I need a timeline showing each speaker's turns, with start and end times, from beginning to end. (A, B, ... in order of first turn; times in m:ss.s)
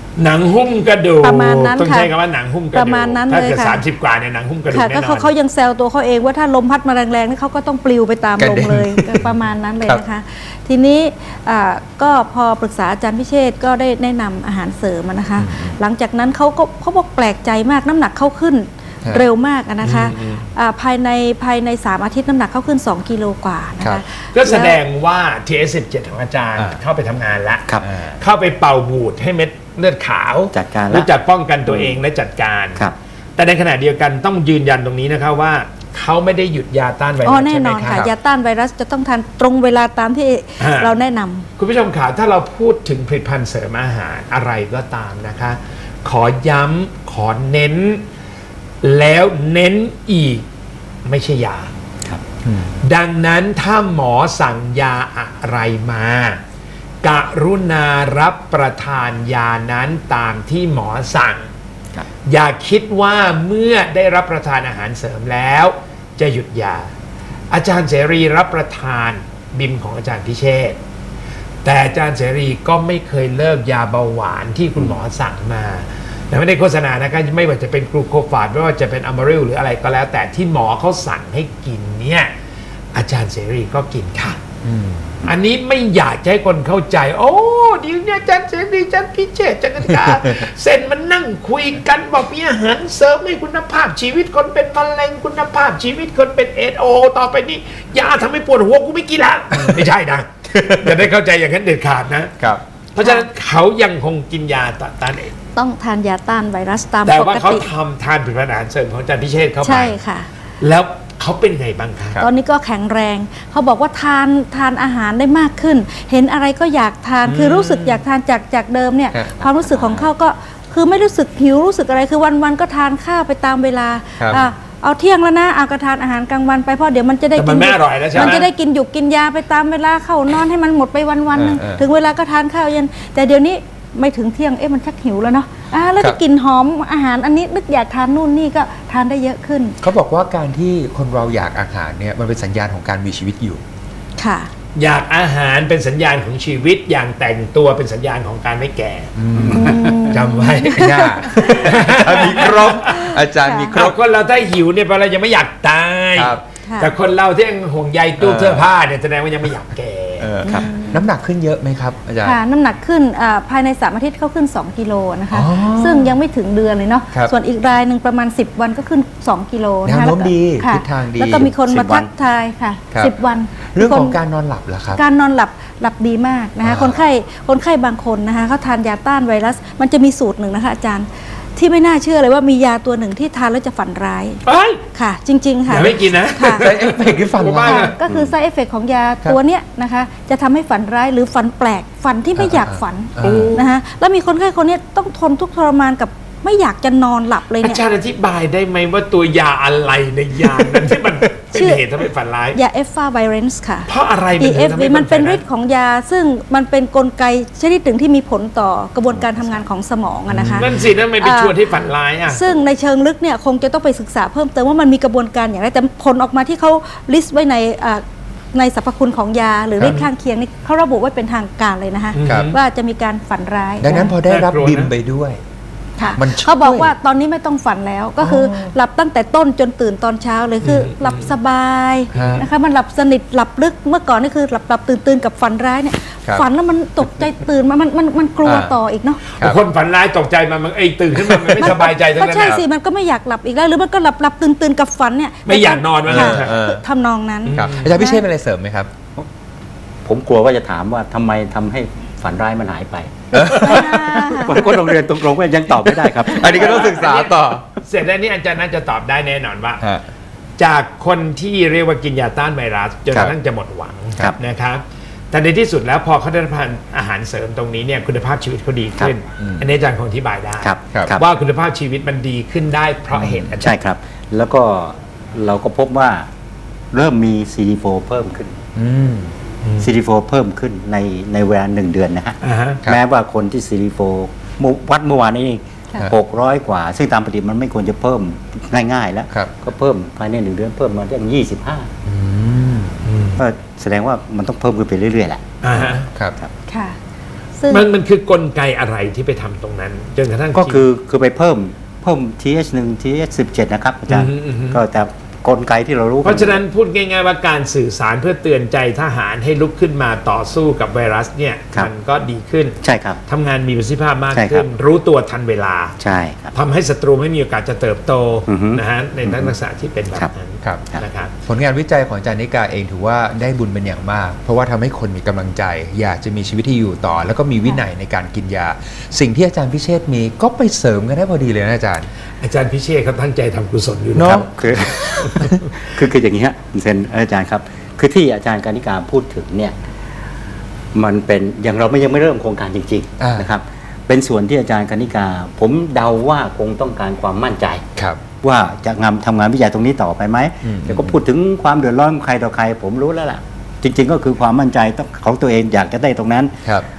0:00.2-0:05.3 A
0:01.2-0:02.1 B
0:02.7-0:03.8 B
0:04.7-0:24.8 B
0:08.4-0:10.0 C
0:15.4-0:15.8 C
0:19.8-0:20.4 A
0:24.3-0:38.1 A
0:30.5-0:31.1 D
0:31.7-0:32.0 D
0:37.2-0:41.5 B
0:40.6-0:40.9 A
0:41.6-0:48.0 A
0:48.8-0:50.4 A
0:51.0-0:51.7 A
0:52.4-0:52.7 C
0:52.8-0:56.4 A
0:57.0-1:01.5 A
1:02.3-1:06.9 A
1:07.5-1:10.8 A
1:11.6-1:22.3 A
1:22.9-1:24.4 A
1:24.6-1:25.2 C
1:25.2-1:42.3 A
1:39.5-1:39.8 C
1:40.5-1:41.0 C
1:42.9-1:45.3 A
1:45.5-1:47.7 B
1:47.0-1:50.0 A
1:49.6-1:50.3 B
1:50.6-1:52.2 A
1:52.2-2:19.8 B
1:57.2-1:58.0 C
1:59.5-2:00.0 D
2:04.2-2:04.4 C
2:07.4-2:08.5 A
2:11.3-2:11.8 C
2:19.8-2:23.6 C
2:24.2-2:24.5 B
2:24.8-2:33.1 A
2:29.1-2:34.0 C
2:29.5-2:33.8 B
2:33.7-2:40.3 A
2:36.2-2:36.4 C
2:36.6-2:36.9 B
2:38.2-2:38.6 C
2:40.2-2:42.4 C
2:40.4-2:41.0 B
2:42.2-2:54.2 B
2:45.3-2:46.2 C
2:49.8-2:51.5 C
2:51.6-2:52.1 D
2:53.7-2:55.0 C
2:54.9-3:04.4 B
2:56.6-2:57.0 C
3:04.4-3:04.8 A
3:04.9-3:06.7 B
3:05.7-3:08.3 C
3:05.7-3:07.9 A
3:07.5-3:17.8 B
3:12.4-3:13.6 C
3:13.2-3:13.6 A
3:17.6-3:22.6 A
3:21.5-3:21.8 B
3:22.5-3:31.6 B
3:23.9-3:25.4 A
3:30.3-3:30.8 C
3:30.5-3:32.4 A
3:32.3-3:38.0 B
3:38.5-3:44.1 B
3:39.8-3:40.0 A
3:42.1-3:42.6 A
3:43.8-3:45.4 C
3:44.2-3:44.9 A
3:46.0-3:59.2 B
3:46.2-3:46.9 C
3:48.2-3:48.7 C
3:50.6-3:51.3 A
3:52.1-3:52.4 A
3:52.1-3:52.4 C
3:58.4-3:58.8 C
3:59.4-4:02.6 A
4:01.2-4:01.7 C
4:01.6-4:08.2 B
4:05.4-4:06.7 A
4:06.0-4:06.8 C
4:07.4-4:07.9 A
4:07.5-4:08.9 C
4:10.0-4:17.0 D
4:13.3-4:14.7 C
4:13.5-4:14.7 B
4:15.8-4:17.6 C
4:16.4-4:19.8 A
4:20.6-4:33.8 A
4:29.4-4:29.6 C
4:30.6-4:31.2 D
4:33.2-4:33.5 C
4:33.6-4:36.3 D
4:36.9-4:38.6 D
4:38.7-4:39.3 C
4:39.8-4:51.9 D
4:42.4-4:42.8 A
4:52.0-4:53.0 C
4:53.0-4:53.4 A
4:53.4-4:56.5 D
4:55.6-4:56.1 A
4:56.7-4:57.0 B
4:57.6-4:57.9 B
4:57.7-5:00.8 A
5:00.5-5:06.6 D
5:04.1-5:04.8 A
5:06.2-5:16.0 A
5:12.8-5:13.2 D
5:14.3-5:14.7 D
5:16.0-5:16.5 D
5:16.5-5:21.3 A
5:18.5-5:19.5 D
5:21.4-5:32.1 C
5:32.4-5:35.5 A
5:34.2-5:35.6 C
5:34.4-5:39.7 D
5:40.9-5:47.8 D
5:43.2-5:43.5 C
5:48.4-5:56.6 D
5:50.6-5:51.1 C